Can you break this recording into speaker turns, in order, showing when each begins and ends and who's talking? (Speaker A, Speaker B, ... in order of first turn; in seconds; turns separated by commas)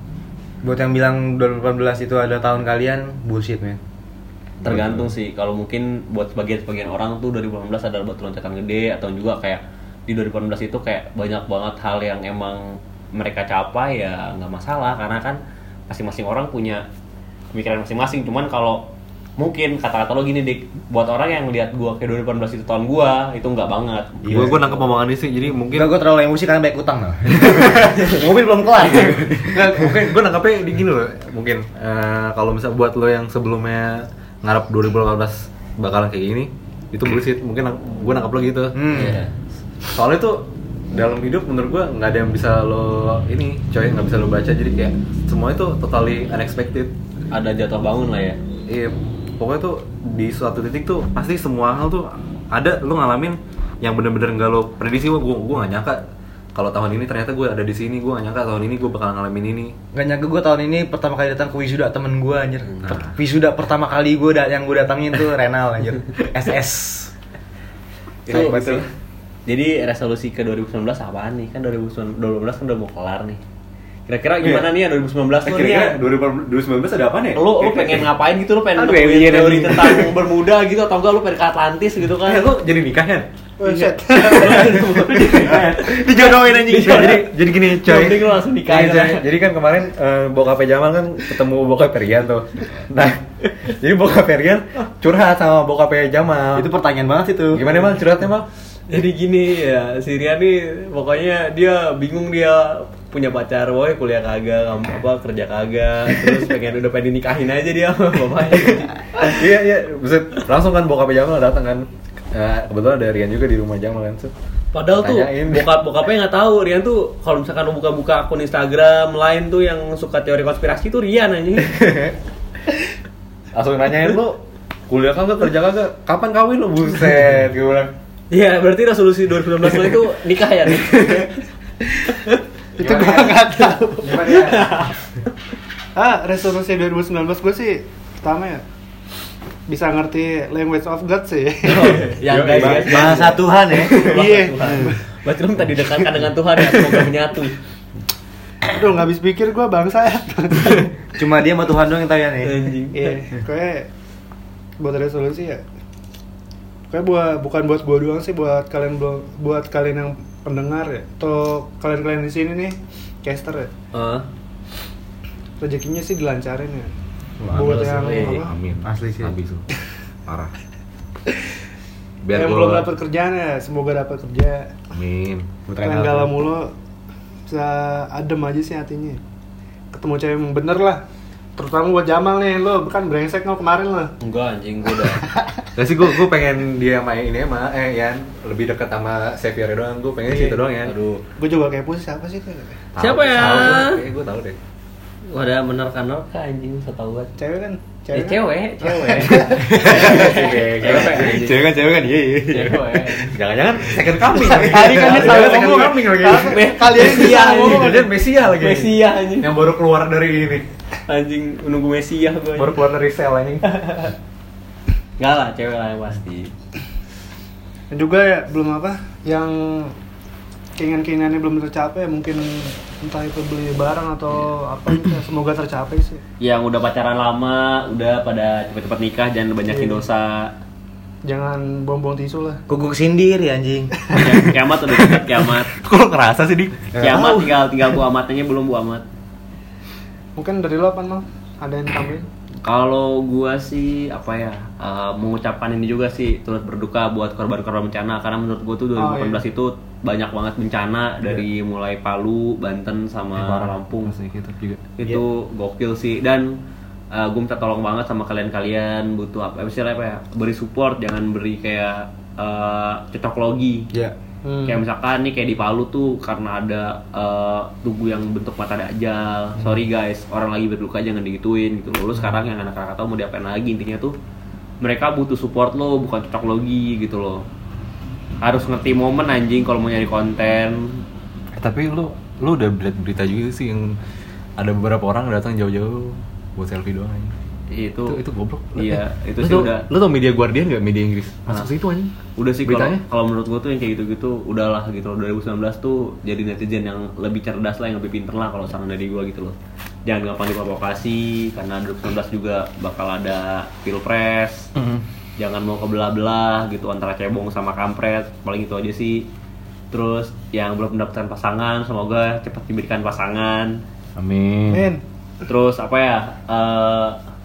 Speaker A: 0.6-3.8, Speaker B: 4.6-5.1, Speaker C: 4.6-16.8, Speaker C: 17.5-18.9, Speaker C: 19.4-24.9, Speaker A: 24.2-24.6, Speaker B: 24.3-25.9, Speaker A: 25.7-30.0, Speaker B: 27.3-27.9, Speaker B: 29.1-39.0, Speaker A: 38.7-39.2, Speaker C: 38.9-39.3, Speaker B: 39.9-46.9, Speaker C: 47.3-48.4, Speaker B: 48.7-56.0, Speaker B: 56.5-59.7, Speaker A: 59.9-67.1, Speaker B: 62.8-63.2, Speaker A: 68.3-68.8, Speaker C: 68.3-68.8, Speaker B: 68.3-68.7, Speaker C: 69.5-73.4, Speaker C: 74.1-76.0, Speaker B: 74.4-74.7, Speaker B: 75.4-78.1, Speaker C: 77.3-82.4, Speaker B: 78.8-80.1, Speaker B: 82.2-83.2, Speaker D: 83.6-84.8, Speaker C: 83.7-89.2, Speaker B: 84.4-85.7, Speaker A: 85.5-87.2, Speaker B: 86.8-96.7, Speaker A: 96.5-97.7, Speaker B: 97.5-98.5, Speaker C: 98.9-109.3, Speaker B: 109.2-114.3, Speaker C: 114.7-121.7, Speaker B: 114.9-115.7, Speaker B: 121.7-122.1, Speaker B: 123.5-127.9, Speaker C: 128.3-131.4, Speaker C: 132.1-132.4, Speaker D: 132.8-134.2, Speaker B: 132.8-133.4, Speaker C: 133.6-135.0, Speaker A: 134.0-134.6, Speaker B: 134.1-134.6, Speaker D: 135.9-138.6, Speaker D: 139.7-142.1, Speaker C: 141.6-147.6, Speaker B: 142.3-143.1, Speaker A: 142.5-144.0, Speaker D: 143.9-145.0, Speaker D: 148.6-150.8, Speaker A: 151.1-152.6, Speaker C: 152.4-153.2, Speaker D: 152.9-153.9, Speaker D: 154.8-155.6, Speaker D: 156.9-163.7, Speaker C: 163.9-164.2, Speaker D: 165.6-166.9, Speaker A: 167.4-168.1, Speaker D: 167.5-168.5, Speaker C: 167.7-168.4, Speaker B: 168.1-169.7, Speaker A: 168.8-169.3, Speaker B: 170.3-170.5, Speaker B: 172.2-172.9, Speaker D: 172.3-174.7, Speaker B: 174.9-175.5, Speaker A: 175.7-176.5, Speaker D: 175.8-176.7, Speaker D: 177.5-179.2, Speaker D: 179.9-181.0, Speaker D: 181.6-184.1, Speaker C: 184.2-185.2, Speaker D: 185.3-185.6, Speaker B: 185.8-190.9, Speaker D: 190.3-190.6, Speaker C: 190.8-191.2, Speaker D: 191.4-192.8, Speaker B: 192.9-194.6, Speaker C: 193.0-194.0, Speaker C: 195.3-197.3, Speaker D: 197.4-199.6, Speaker C: 198.1-201.6, Speaker A: 199.6-203.1, Speaker B: 199.7-201.5, Speaker C: 202.5-203.3, Speaker B: 203.3-210.7, Speaker A: 204.0-205.1, Speaker D: 204.4-208.1, Speaker C: 205.0-205.6, Speaker C: 206.3-209.5, Speaker C: 211.1-212.7, Speaker B: 212.6-213.7, Speaker C: 213.6-214.1, Speaker C: 215.2-216.5, Speaker D: 217.9-219.9, Speaker D: 220.8-226.2, Speaker C: 226.4-230.5, Speaker D: 229.7-230.0, Speaker D: 231.2-232.6, Speaker A: 232.7-233.9, Speaker C: 234.1-235.7, Speaker B: 235.0-236.9, Speaker A: 236.9-237.5, Speaker C: 237.0-239.0, Speaker D: 240.3-242.3, Speaker C: 242.6-254.1, Speaker D: 248.9-249.4, Speaker B: 253.3-254.8, Speaker C: 255.0-256.5, Speaker C: 257.1-263.9, Speaker D: 264.4-264.8, Speaker C: 264.7-274.1, Speaker C: 274.8-277.4, Speaker C: 278.4-281.0, Speaker B: 281.6-284.0, Speaker B: 284.6-287.3, Speaker C: 287.7-288.2, Speaker B: 288.1-292.1, Speaker C: 288.8-289.8, Speaker C: 292.4-304.7, Speaker B: 292.6-293.0, Speaker B: 304.8-305.0, Speaker C: 305.4-309.3, Speaker C: 309.9-313.8, Speaker B: 314.1-314.9, Speaker D: 314.7-315.0, Speaker C: 315.4-317.2